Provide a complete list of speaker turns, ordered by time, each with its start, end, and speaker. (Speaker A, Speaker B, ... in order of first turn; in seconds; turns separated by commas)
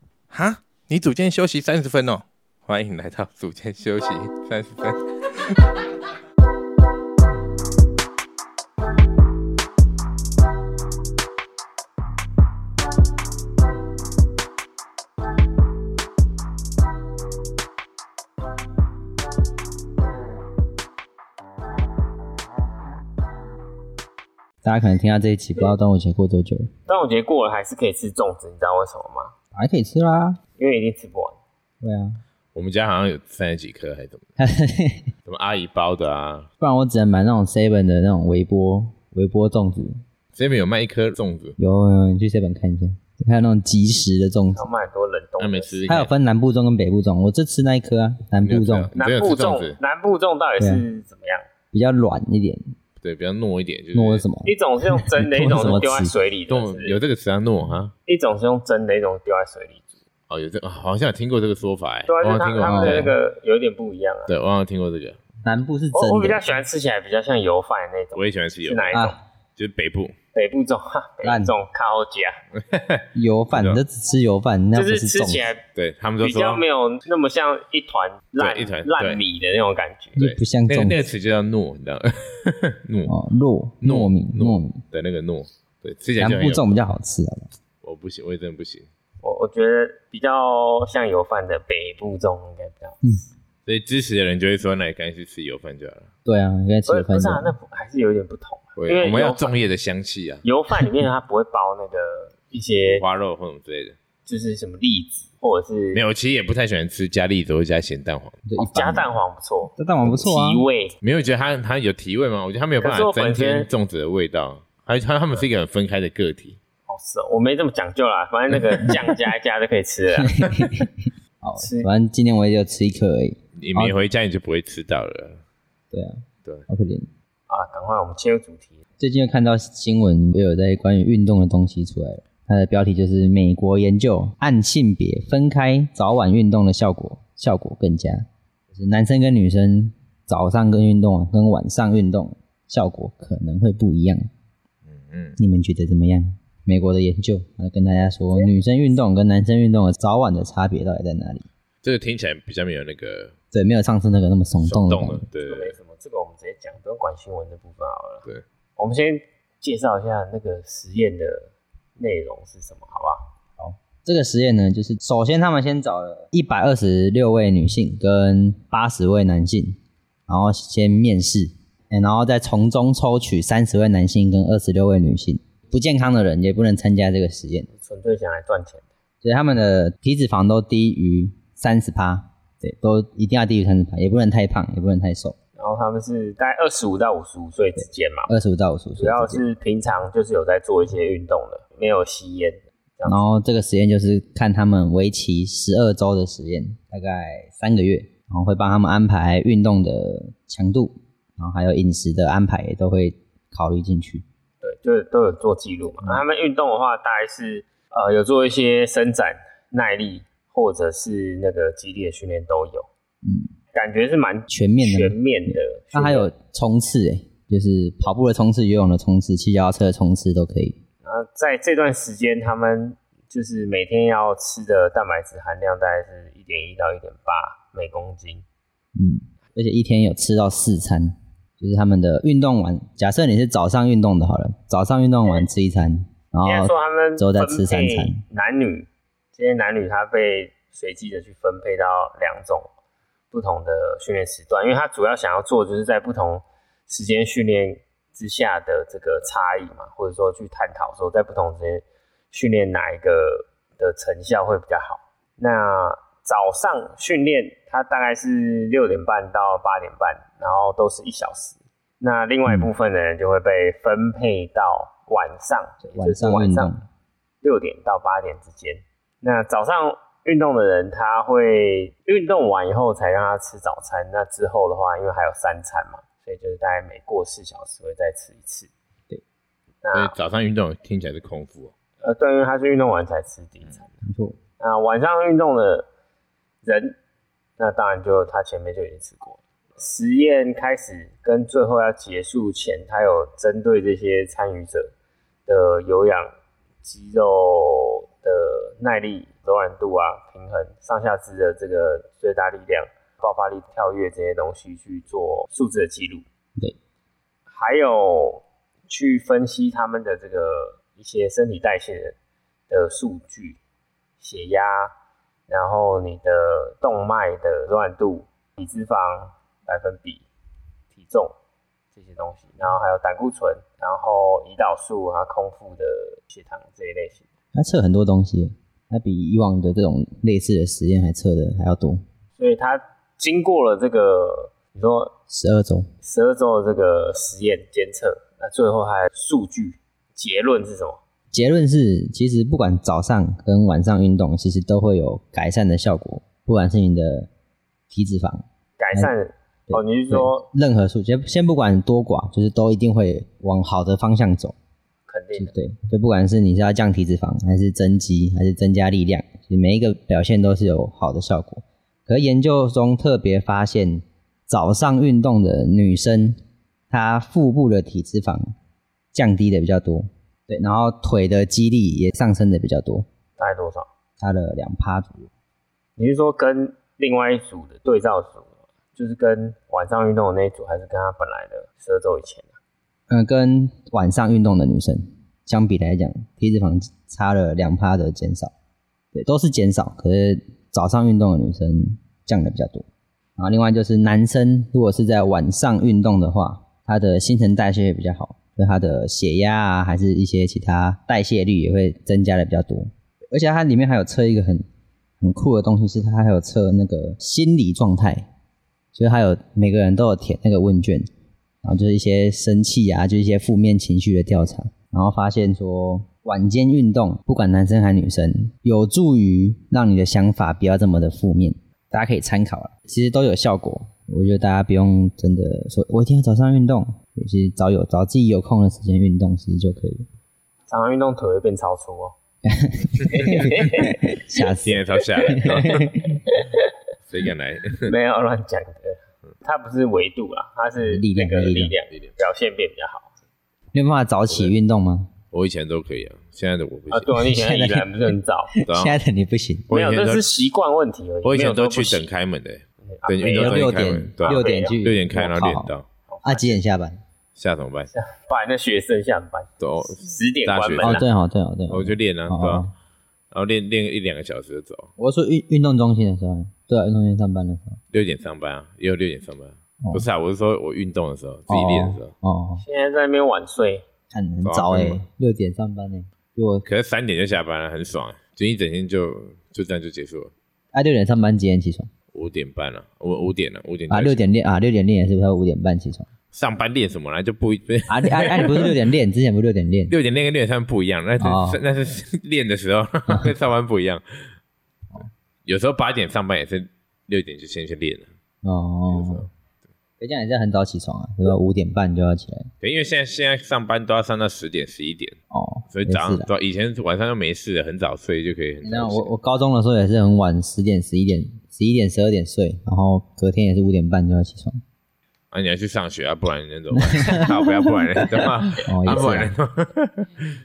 Speaker A: 0.3-5.8, Speaker B: 24.6-26.7, Speaker C: 26.9-29.3, Speaker B: 29.5-30.4, Speaker C: 30.6-31.4, Speaker B: 31.8-32.2, Speaker A: 32.5-34.2, Speaker B: 34.4-35.1, Speaker A: 35.2-36.5, Speaker B: 36.6-40.0, Speaker A: 40.3-41.5, Speaker B: 41.6-44.6, Speaker C: 44.5-45.9, Speaker A: 45.4-46.1, Speaker B: 45.9-48.9, Speaker A: 48.4-49.8, Speaker C: 48.9-51.5, Speaker B: 50.6-50.9, Speaker B: 51.7-52.6, Speaker A: 53.0-54.2, Speaker B: 53.9-56.1, Speaker C: 54.4-57.0, Speaker A: 56.5-57.9, Speaker C: 58.0-59.8, Speaker A: 60.3-63.1, Speaker C: 62.1-64.3, Speaker B: 62.6-63.1, Speaker A: 64.3-65.2, Speaker B: 65.4-66.4, Speaker C: 65.9-69.2, Speaker A: 68.1-69.0, Speaker B: 68.9-69.2, Speaker A: 69.5-70.1, Speaker C: 70.3-72.3, Speaker B: 71.2-71.5, Speaker A: 72.7-73.8, Speaker B: 73.1-75.5, Speaker C: 74.7-75.7, Speaker A: 75.7-76.6, Speaker C: 76.2-80.2, Speaker A: 78.4-79.2, Speaker B: 80.2-81.0, Speaker A: 80.2-83.1, Speaker B: 83.0-84.8, Speaker A: 83.8-86.8, Speaker B: 86.2-87.5, Speaker A: 87.8-88.9, Speaker C: 89.2-93.0, Speaker A: 93.7-96.1, Speaker B: 96.2-97.5, Speaker C: 96.9-99.5, Speaker A: 98.8-100.4, Speaker C: 100.4-103.0, Speaker A: 102.8-104.0, Speaker C: 104.2-106.0, Speaker A: 105.9-108.4, Speaker B: 108.5-109.1, Speaker C: 108.6-110.9, Speaker B: 109.8-110.6, Speaker A: 111.0-116.6, Speaker C: 112.8-113.7, Speaker C: 116.9-120.5, Speaker B: 120.2-124.0, Speaker C: 121.6-121.9, Speaker A: 123.6-125.4, Speaker B: 125.9-127.1, Speaker C: 127.5-128.8, Speaker B: 129.0-144.3, Speaker A: 144.8-145.4, Speaker B: 145.4-151.4, Speaker A: 151.8-153.3, Speaker B: 153.5-155.2, Speaker A: 154.6-155.7, Speaker C: 155.4-158.2, Speaker C: 158.8-163.2, Speaker B: 163.6-177.7, Speaker C: 177.7-178.8, Speaker B: 179.2-185.3, Speaker C: 185.6-188.3, Speaker B: 187.8-189.4, Speaker C: 189.0-193.3, Speaker B: 193.0-204.2, Speaker C: 204.6-212.9, Speaker B: 205.8-206.2, Speaker B: 213.2-213.5, Speaker C: 213.7-216.3, Speaker B: 214.5-220.8, Speaker C: 221.0-228.4, Speaker B: 228.9-238.2, Speaker C: 236.4-242.7, Speaker C: 243.3-266.7, Speaker B: 262.4-262.7, Speaker B: 265.8-266.8, Speaker C: 267.4-278.7, Speaker C: 279.8-280.1, Speaker A: 279.9-281.7, Speaker C: 282.0-283.9, Speaker B: 284.0-284.4, Speaker C: 284.6-285.9, Speaker C: 286.6-287.0, Speaker C: 287.6-294.9, Speaker C: 295.5-296.3, Speaker C: 296.8-306.2, Speaker C: 307.5-312.1, Speaker C: 312.7-313.6, Speaker C: 314.2-314.9, Speaker C: 315.5-320.2, Speaker C: 320.9-321.3, Speaker C: 321.9-327.2, Speaker B: 327.5-332.0, Speaker C: 332.4-335.1, Speaker B: 335.3-335.9, Speaker C: 336.0-341.0, Speaker B: 341.3-347.3, Speaker B: 347.9-349.1, Speaker C: 348.8-350.5, Speaker B: 349.7-354.5, Speaker C: 355.1-355.5, Speaker B: 355.3-366.4, Speaker B: 366.9-368.5, Speaker B: 369.1-373.1, Speaker C: 373.4-373.9, Speaker B: 374.2-375.3, Speaker C: 376.0-382.5, Speaker B: 383.1-388.5, Speaker B: 389.1-404.6, Speaker B: 405.2-408.3, Speaker B: 408.9-411.1, Speaker B: 411.6-430.1, Speaker C: 430.7-432.1, Speaker B: 432.4-436.1, Speaker C: 433.1-434.1, Speaker A: 434.6-435.8, Speaker C: 435.3-436.7, Speaker A: 437.1-437.9, Speaker C: 437.9-443.1, Speaker B: 440.8-441.7, Speaker B: 443.7-445.1, Speaker A: 444.3-444.5, Speaker A: 445.3-447.1, Speaker C: 446.9-448.5, Speaker B: 447.2-449.7, Speaker A: 448.6-449.0, Speaker A: 449.7-450.2, Speaker C: 449.7-452.1, Speaker A: 451.2-455.9, Speaker C: 452.8-454.8, Speaker B: 453.4-455.7, Speaker C: 456.1-456.6, Speaker B: 456.2-457.0, Speaker A: 457.4-457.9, Speaker C: 457.9-461.1, Speaker A: 459.6-461.1, Speaker B: 460.8-462.7, Speaker A: 461.7-462.6, Speaker A: 463.3-464.9, Speaker B: 465.0-467.8, Speaker A: 467.9-472.1, Speaker B: 471.5-472.6, Speaker C: 472.6-473.8, Speaker B: 474.1-476.6, Speaker A: 474.4-475.0, Speaker A: 476.6-480.3, Speaker B: 480.7-481.9, Speaker A: 482.1-484.2, Speaker B: 483.9-486.1, Speaker A: 486.3-488.7, Speaker B: 487.9-489.9, Speaker A: 489.9-494.0, Speaker B: 491.2-491.6, Speaker A: 495.4-498.1, Speaker B: 498.4-499.3, Speaker A: 498.9-499.3, Speaker B: 500.0-502.5, Speaker A: 502.6-505.1, Speaker B: 505.3-506.3, Speaker A: 505.7-509.1, Speaker B: 508.6-514.6, Speaker A: 515.3-520.3, Speaker B: 516.7-519.3